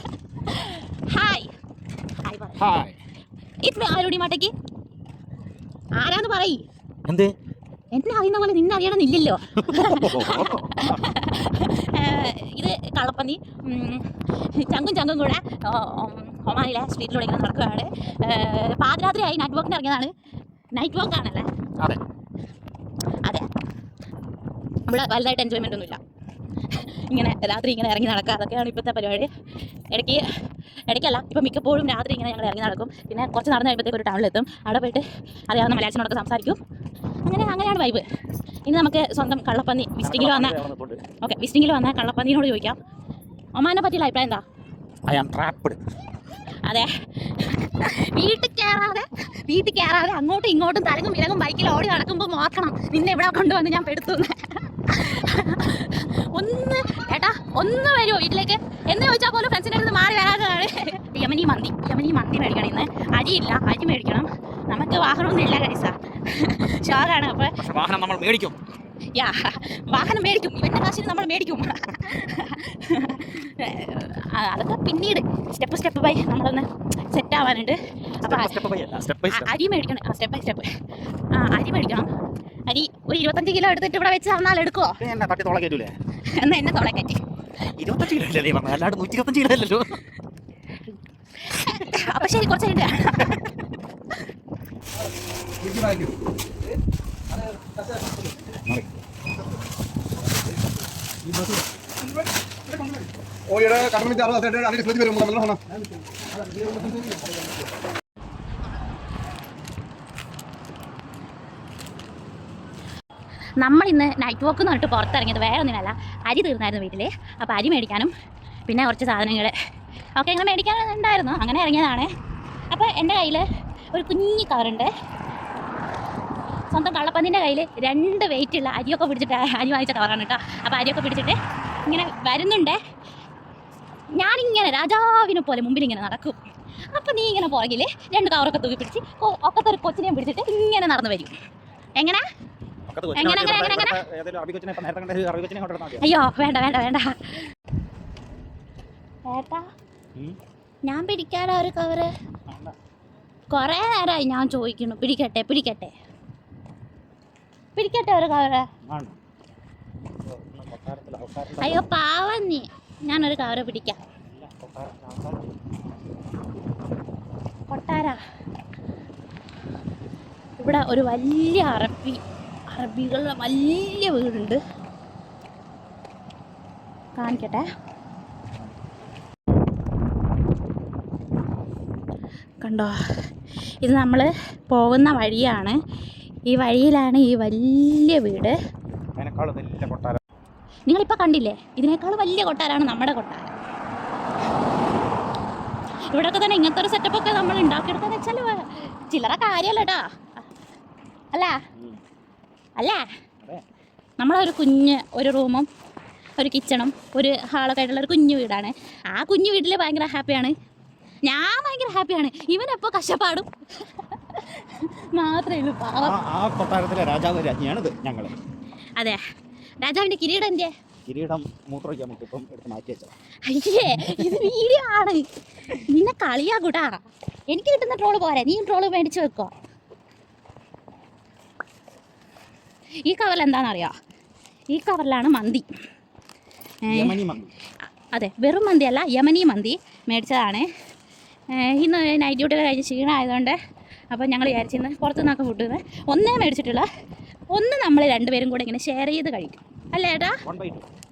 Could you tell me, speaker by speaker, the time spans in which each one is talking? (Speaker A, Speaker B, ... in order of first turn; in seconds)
Speaker A: 0.4-1.5, 2.2-2.7, 3.6-4.5, 6.0-6.6, 7.9-20.1, 20.8-21.5, 24.9-26.0, 26.7-29.3, 29.9-30.2, 30.9-36.6, 37.2-38.0, 38.7-40.6, 41.2-42.8, 43.5-44.4, 46.6-67.6, 69.2-78.6, 79.3-80.7, 81.3-82.1, 82.7-85.0, 86.3-87.2, 90.9-94.2, 113.6-118.1, 118.7-119.5, 120.2-122.1, 122.7-124.9, 126.7-132.8, 134.1-136.4, 136.9-141.3, 142.0-142.2, 143.2-144.0, 146.0-147.4, 149.3-149.7, 150.9-152.1, 153.5-155.9, 157.8-158.7, 161.6-164.0, 167.7-168.2, 170.6-172.2, 172.7-174.6, 177.2-177.7, 182.6-182.9, 183.8-185.8, 186.5-188.6, 190.9-193.6, 196.1-200.1, 201.3-201.6, 202.8-203.1, 204.2-205.7, 206.4-210.5, 211.2-216.2, 219.8-220.7, 223.5-229.5, 233.1-233.9, 234.7-235.7, 236.8-237.2, 238.1-240.7, 241.5-243.6, 244.1-246.9, 247.5-250.4
Speaker B: 2.6-2.9, 7.1-7.3, 9.6-11.0, 40.0-41.0, 45.1-45.8, 67.6-68.6, 78.2-79.5, 85.0-86.0, 87.8-90.0, 98.5-99.0, 142.9-146.1, 152.5-152.8, 158.9-159.2, 160.3-161.8, 164.3-165.5, 189.2-190.2, 201.8-202.0, 216.0-218.3, 221.1-223.1, 224.0-224.5, 236.9-237.5, 250.4-250.9
Speaker C: 95.7-96.1, 103.5-105.7, 106.6-106.8